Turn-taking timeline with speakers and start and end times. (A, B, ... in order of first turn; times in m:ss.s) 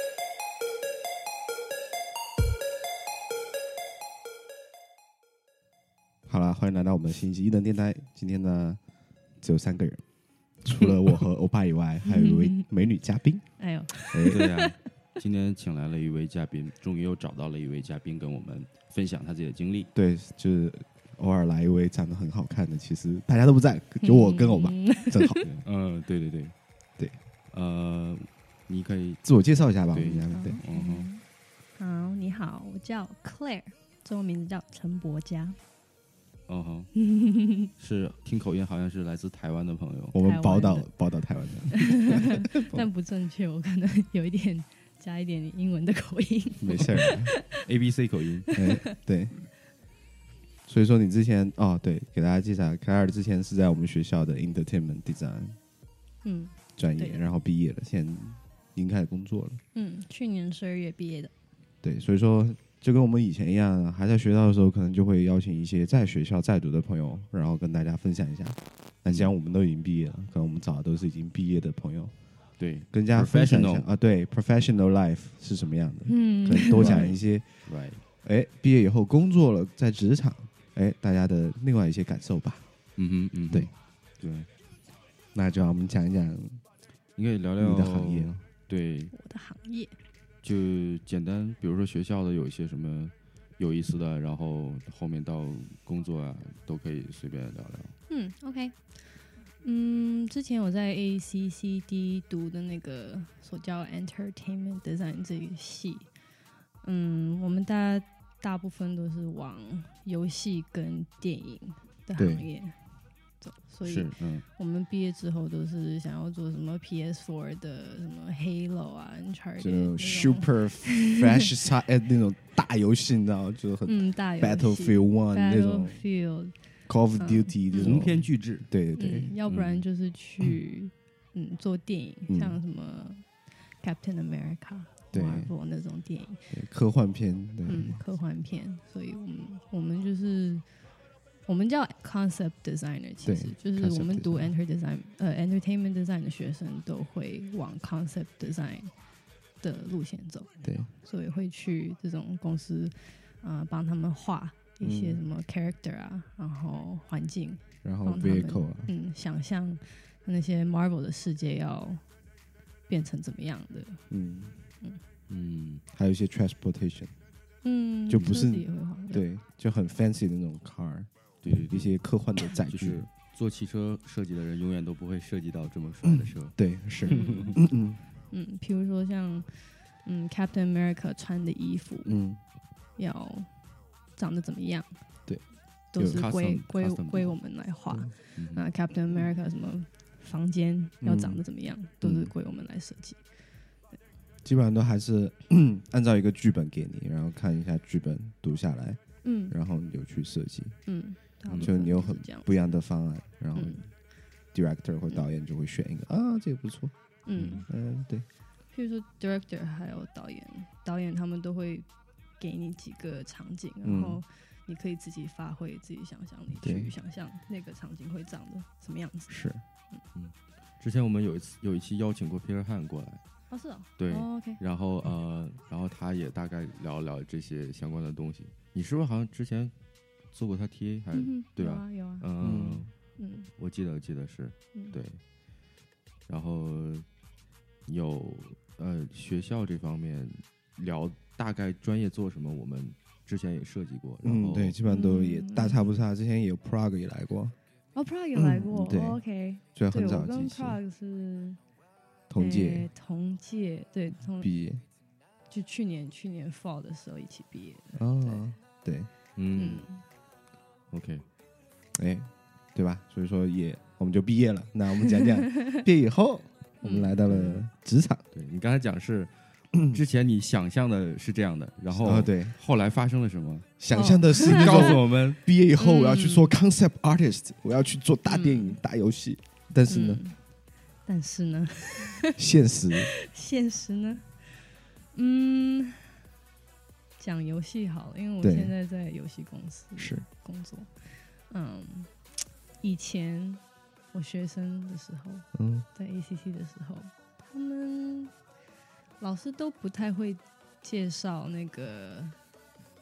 0:06.3-0:08.8 A
0:09.4-0:10.0 A
0:10.6-0:13.4 A
0:12.0-0:12.7 B
0:13.6-0:14.7 B
0:14.1-0:14.5 A
0:14.3-0:19.9 C
0:20.0-0:25.4 A
0:24.0-0:25.4 B
0:25.4-0:26.5 C
0:27.5-0:29.2 C
0:29.2-0:30.6 A
0:29.9-0:31.1 C
0:30.3-0:31.2 B
0:31.8-0:35.6 B
0:36.5-0:36.9 C
0:37.0-0:37.7 B
0:37.8-0:40.2 C
0:40.1-0:42.9 A
0:40.2-0:40.9 B
0:41.7-0:47.6 B
0:46.6-0:48.5 C
0:46.7-0:47.3 A
0:48.6-0:49.4 A
0:50.7-0:55.6 A
0:56.2-0:57.2 B
0:56.8-0:59.6 A
0:59.7-1:01.3 B
1:01.8-1:12.1 A
1:12.6-1:13.9 C
1:12.9-1:17.7 A
1:16.1-1:17.1 B
1:16.7-1:18.0 C
1:18.2-1:22.6 A
1:23.0-1:24.5 C
1:25.3-1:26.6 A
1:27.2-1:29.1 C
1:27.6-1:28.4 A
1:29.1-1:30.0 B
1:30.4-1:38.0 C
1:38.1-1:39.0 B
1:39.6-1:46.1 B
1:46.8-1:52.8 B
1:52.2-1:52.5 A
1:53.4-2:01.5 B
1:53.8-1:54.4 C
1:59.6-2:06.0 A
2:03.9-2:06.6 B
2:06.9-2:09.4 A
2:07.2-2:08.0 B
2:07.8-2:08.7 C
2:09.0-2:16.5 B
2:09.5-2:09.8 C
2:12.3-2:12.6 A
2:15.1-2:15.5 A
2:16.5-2:18.0 A
2:17.7-2:20.7 B
2:21.5-2:28.9 B
2:23.2-2:24.5 A
2:29.6-2:42.0 B
2:30.6-2:30.9 A
2:34.8-2:35.2 A
2:37.8-2:38.9 A
2:42.9-2:44.0 B
2:44.1-2:44.6 A
2:45.3-2:45.8 C
2:45.9-2:47.1 A
2:47.6-2:49.2 B
2:48.1-2:53.1 A
2:51.4-2:52.0 C
2:52.7-2:56.6 C
2:56.1-2:58.0 A
2:57.0-2:57.6 B
2:57.1-2:57.5 C
2:58.3-3:02.1 B
3:02.0-3:02.4 A
3:03.0-3:03.5 B
3:04.2-3:05.0 B
3:05.9-3:13.2 B
3:06.0-3:06.2 A
3:06.0-3:07.4 C
3:08.4-3:08.7 C
3:11.0-3:11.4 A
3:12.0-3:12.3 A
3:14.4-3:20.8 A
3:19.2-3:19.5 B
3:20.9-3:22.5 B
3:21.6-3:23.8 A
3:23.6-3:23.9 B
3:24.5-3:26.9 A
3:27.3-3:27.7 B
3:27.4-3:27.6 C
3:27.7-3:28.3 A
3:28.7-3:31.9 B
3:32.4-3:39.4 B
3:33.8-3:34.2 A
3:36.6-3:36.9 A
3:39.3-3:39.6 A
3:40.2-3:43.2 C
3:43.5-3:44.6 B
3:44.0-3:49.7 C
3:50.3-3:52.9 C
3:51.2-3:52.3 B
3:52.4-3:52.9 A
3:53.2-3:53.5 B
3:53.6-3:55.2 C
3:56.3-3:57.1 C
3:57.9-4:04.8 C
4:04.2-4:07.6 A
4:04.8-4:05.8 B
4:08.0-4:11.6 B
4:08.4-4:09.2 A
4:09.8-4:10.8 A
4:12.3-4:12.9 A
4:12.4-4:14.5 B
4:14.4-4:14.8 A
4:15.5-4:18.4 B
4:18.0-4:19.1 A
4:19.4-4:19.9 C
4:19.5-4:20.0 B
4:20.9-4:21.2 C
4:22.0-4:28.2 A
4:26.8-4:27.1 B
4:27.2-4:27.6 C
4:28.3-4:33.7 C
4:31.9-4:32.6 A
4:33.8-4:40.2 A
4:33.9-4:35.0 B
4:34.4-4:35.4 C
4:35.8-4:36.5 B
4:38.3-4:38.8 B
4:39.9-4:40.4 B
4:41.1-4:42.4 B
4:42.4-4:43.1 A
4:42.9-4:46.2 B
4:47.2-4:50.9 B
4:48.4-4:48.7 A
4:50.0-4:50.2 A
4:51.5-4:52.3 B
4:52.8-4:58.3 B
4:55.5-4:55.9 A
4:59.2-5:02.4 B